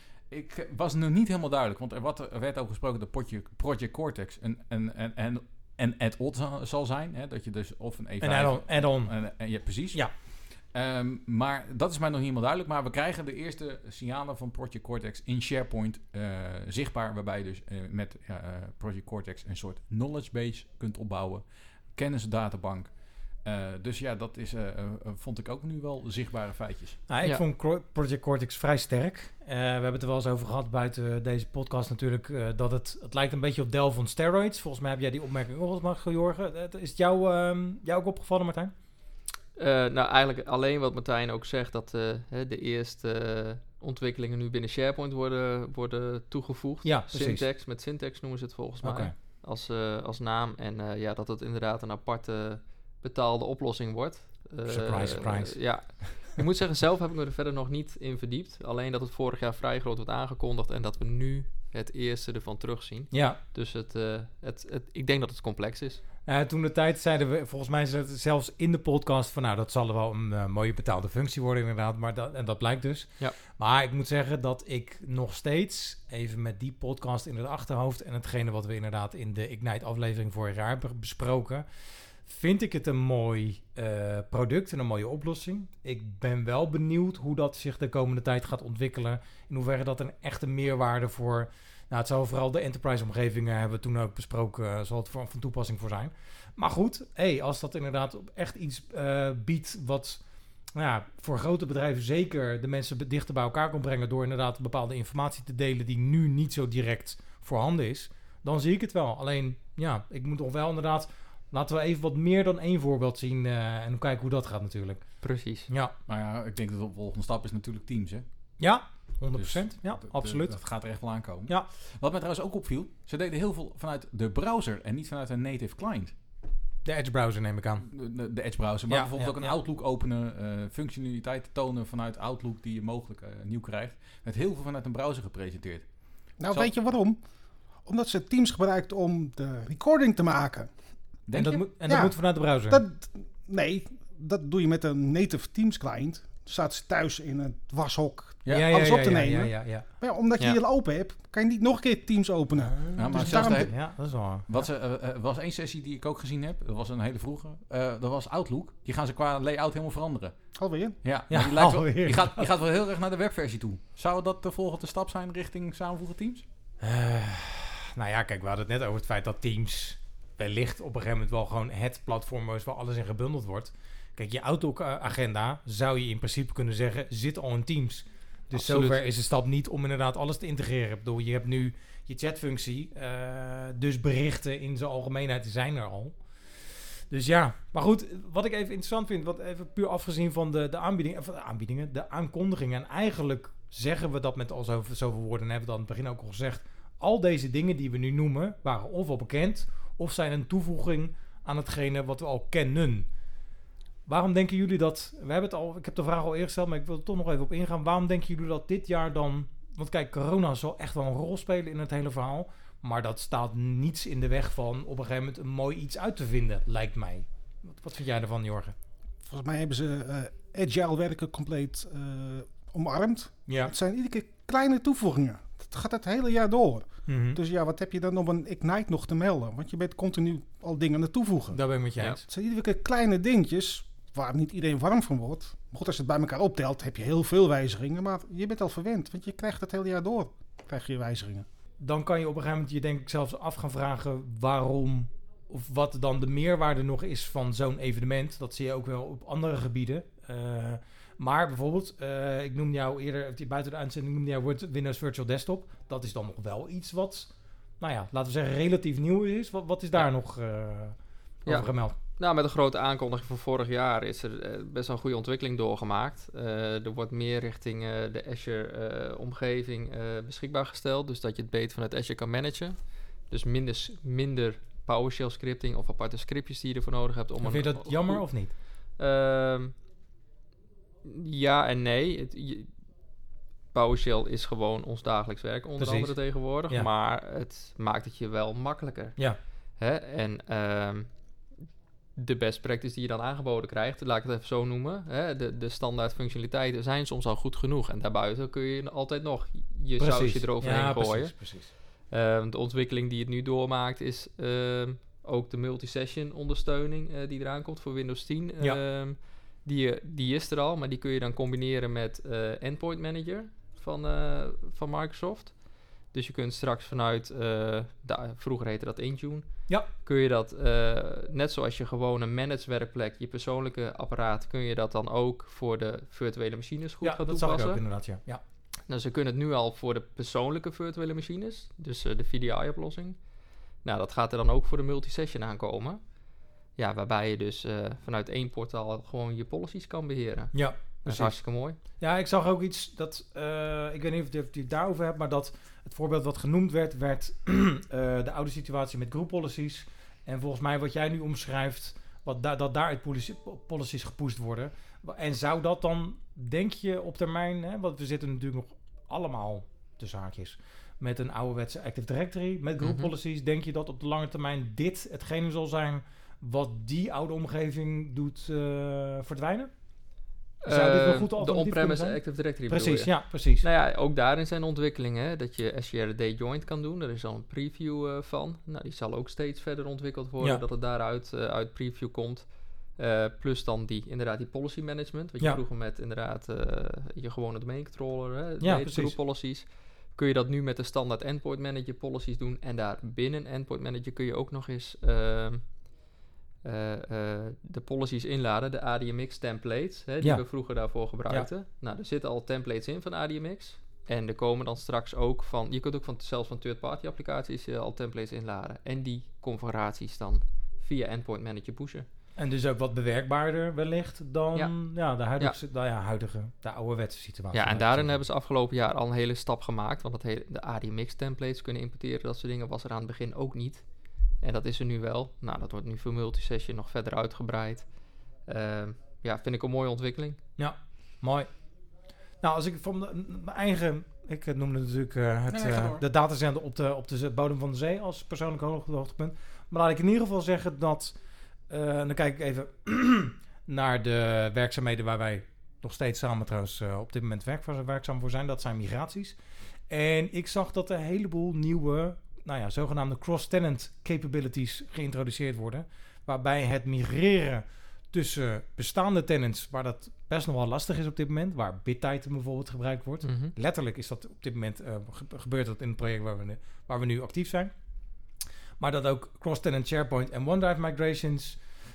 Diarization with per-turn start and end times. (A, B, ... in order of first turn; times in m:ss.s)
0:00.3-0:27.0 A
0:08.2-0:09.2 B
0:27.1-0:38.7 B
0:39.6-1:06.0 C
0:46.8-0:47.4 B
0:48.8-0:49.1 B
0:54.7-0:56.1 B
1:03.1-1:03.4 B
1:06.3-1:40.2 B
1:40.8-1:55.1 B
1:55.2-1:55.7 C
1:55.7-1:55.9 B
1:56.1-1:58.3 A
1:58.6-2:00.6 B
1:59.3-2:06.1 A
2:06.8-2:07.9 B
2:07.9-2:15.9 A
2:08.9-2:09.6 B
2:16.4-2:17.2 D
2:17.8-2:20.7 D
2:21.3-2:21.6 A
2:21.3-2:22.8 B
2:21.8-2:33.7 D
2:28.5-2:29.9 B
2:32.6-2:34.5 B
2:33.0-2:40.4 A
2:40.6-2:41.0 D
2:41.0-2:46.4 A
2:41.3-2:42.5 B
2:46.8-3:23.1 B
2:58.5-2:59.0 C
3:24.1-3:38.8 B
3:39.2-3:51.6 D
3:43.5-3:43.7 B
3:47.1-3:47.4 B
3:51.5-3:52.2 B
3:52.2-4:01.5 D
4:01.8-4:22.0 B
4:21.4-4:39.7 C
4:37.4-4:38.5 B
4:41.0-4:42.7 C
4:43.7-4:51.1 C
4:45.8-4:46.2 B
4:52.2-5:15.6 C
5:00.0-5:01.7 B
5:16.1-5:27.8 C
5:27.0-5:28.4 B
5:28.9-5:33.2 C
5:33.8-5:36.0 C
5:36.8-5:41.8 C
5:40.5-6:09.7 B
6:02.8-6:03.1 C
6:10.6-6:35.8 C
6:10.6-6:13.7 B
6:28.6-6:29.2 B
6:36.6-6:52.1 C
6:52.4-6:58.2 B
6:57.5-7:03.9 C
7:04.4-7:07.9 C
7:08.5-7:10.4 C
7:10.6-7:11.5 B
7:12.4-7:21.2 B
7:15.5-7:16.0 A
7:21.7-7:29.4 B
7:29.9-7:47.7 B
7:43.2-7:43.5 C
7:48.8-7:51.6 B